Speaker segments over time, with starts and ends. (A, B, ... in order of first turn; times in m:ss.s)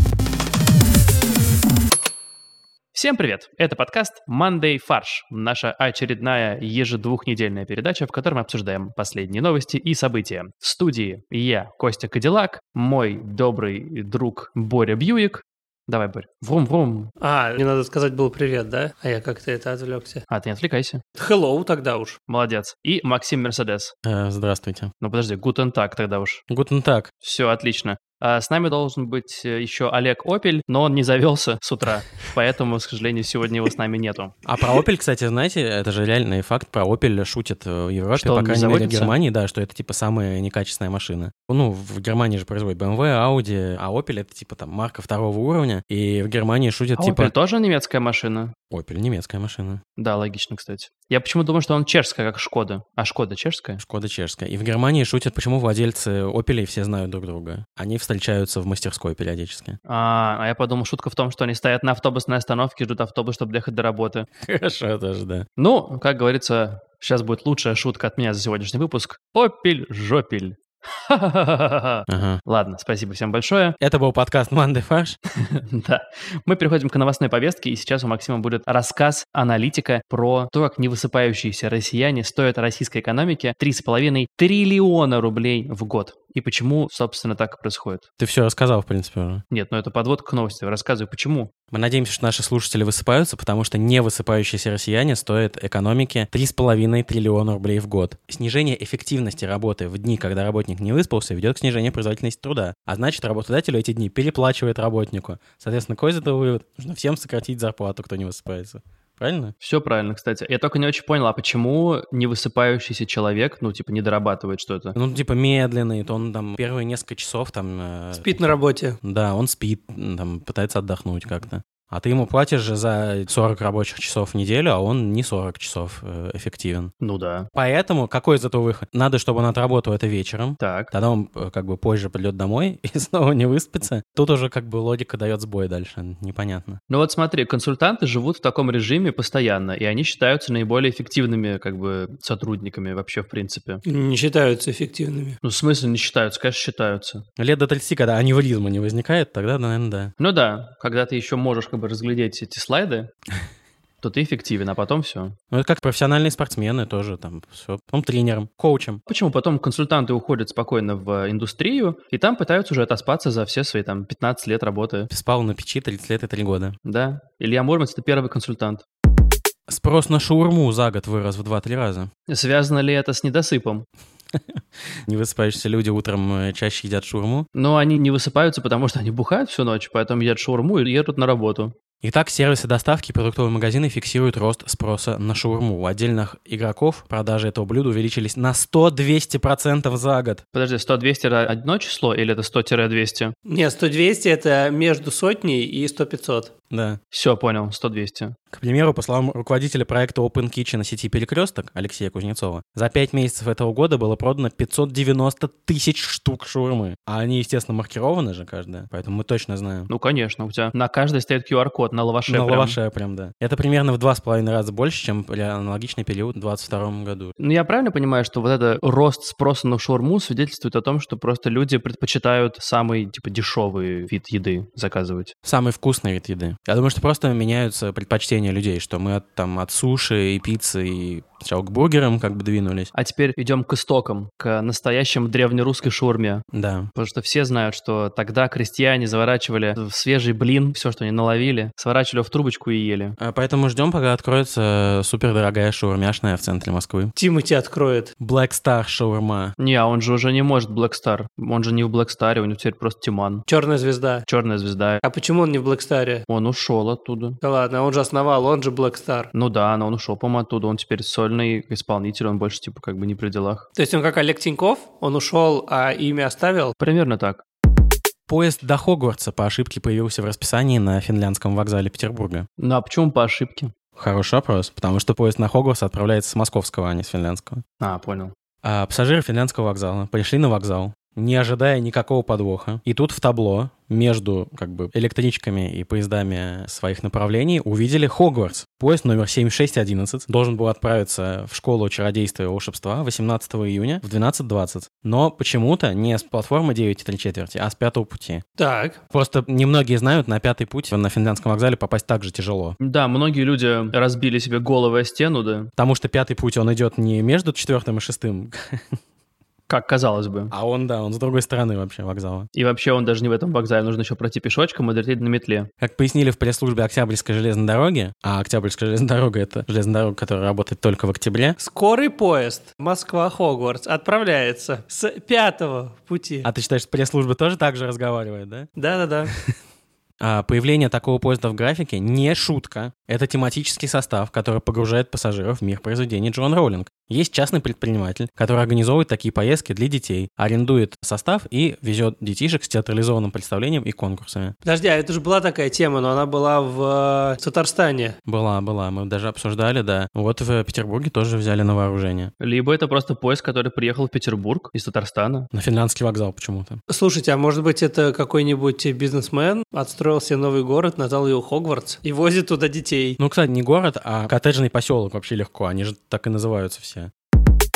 0:02.9-0:17.1 A
0:17.2-0:20.2 B
0:20.3-0:21.0 A
0:21.2-0:22.2 B
0:22.3-0:23.9 A
0:24.0-0:24.9 C
0:25.0-0:26.4 A
0:26.5-0:27.1 C
0:27.2-0:34.4 A
0:34.4-0:47.3 C
0:38.1-0:39.1 A
0:47.0-0:48.5 A
0:48.7-0:49.8 C
0:50.0-0:53.8 A
0:53.8-0:59.8 C
0:59.8-1:04.3 A
1:04.4-1:05.4 C
1:05.6-1:13.8 A
1:12.1-1:12.4 C
1:13.8-1:15.2 C
1:15.3-1:28.0 A
1:28.2-1:29.4 C
1:29.5-1:31.5 A
1:31.7-1:49.5 C
1:49.6-1:55.0 A
1:54.9-1:58.4 C
1:58.1-1:59.0 B
1:59.0-2:06.9 C
2:07.0-2:07.5 A
2:07.5-2:16.8 C
2:10.6-2:10.9 A
2:16.9-2:23.8 A
2:23.8-2:25.4 B
2:25.4-2:27.2 A
2:27.4-2:30.1 C
2:30.2-2:33.1 A
2:34.0-2:35.3 A
2:35.5-2:39.0 C
2:39.1-2:45.1 A
2:45.1-2:46.8 C
2:46.8-2:48.8 A
2:49.7-2:52.1 C
2:52.3-2:53.8 A
2:54.3-2:57.5 C
2:57.5-3:01.7 A
3:02.0-3:10.4 C
3:10.5-3:13.3 A
3:13.5-3:16.5 B
3:16.7-3:17.0 C
3:17.1-3:18.4 A
3:18.5-3:29.9 C
3:29.9-3:32.8 A
3:32.3-3:37.3 C
3:37.4-3:45.3 A
3:45.4-3:52.9 C
3:52.9-4:03.2 A
3:56.5-3:56.9 C
4:03.2-4:07.1 C
4:07.2-4:08.1 B
4:08.2-4:09.5 C
4:09.6-4:13.4 A
4:13.5-4:14.2 B
4:14.3-4:15.0 A
4:15.0-4:16.2 B
4:16.3-4:17.4 A
4:17.4-4:19.3 B
4:19.3-4:23.6 A
4:23.8-4:26.7 B
4:26.8-4:27.4 A
4:28.3-4:32.5 C
4:32.6-4:33.7 A
4:34.0-4:37.6 C
4:37.8-4:38.3 A
4:38.6-4:58.4 C
4:58.6-4:59.0 B
4:59.1-5:02.8 C
5:02.8-5:05.7 A
5:05.8-5:09.0 C
5:09.7-5:10.5 A
5:10.5-5:12.5 C
5:12.5-5:15.7 A
5:15.8-5:21.6 C
5:21.6-5:26.5 B
5:26.4-5:28.7 C
5:28.8-5:29.3 B
5:30.2-5:44.5 C
5:44.6-5:48.1 B
5:48.2-5:52.3 C
5:52.4-5:55.5 A
5:55.5-5:56.8 C
5:56.9-6:03.2 B
6:03.2-6:07.1 C